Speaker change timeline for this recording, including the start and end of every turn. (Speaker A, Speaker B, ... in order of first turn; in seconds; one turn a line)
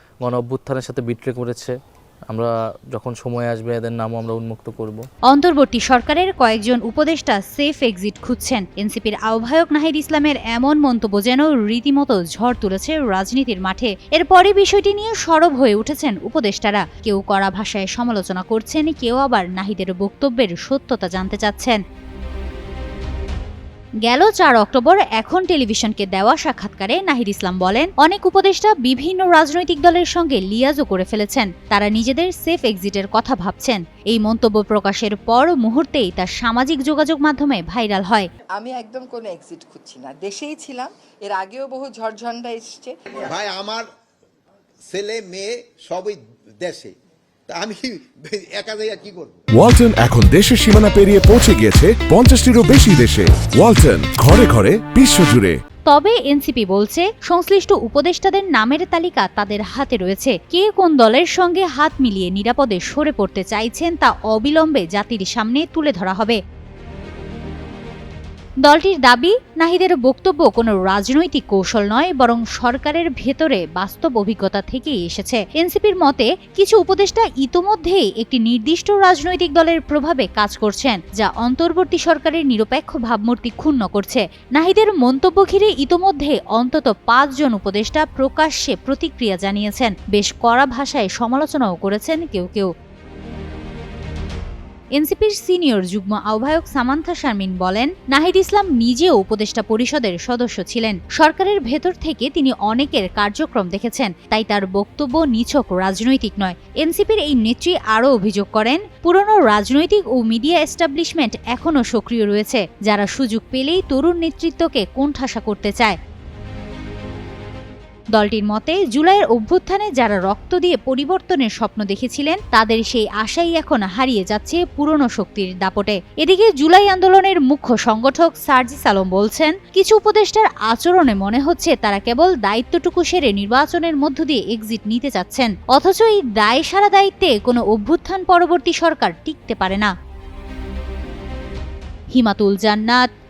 Speaker A: 0.2-1.8
Speaker A: 2.3-5.0
Speaker B: 5.3-21.8
Speaker B: 24.1-38.3
Speaker C: 38.6-42.9
Speaker D: 43.3-43.8
Speaker D: 44.9-46.9
Speaker D: 47.5-49.4
Speaker E: 49.5-55.6
Speaker B: 55.9-66.4
Speaker B: 68.6-92.7
Speaker B: 95.0-116.0
Speaker B: 118.2-139.9
Speaker B: 142.1-143.1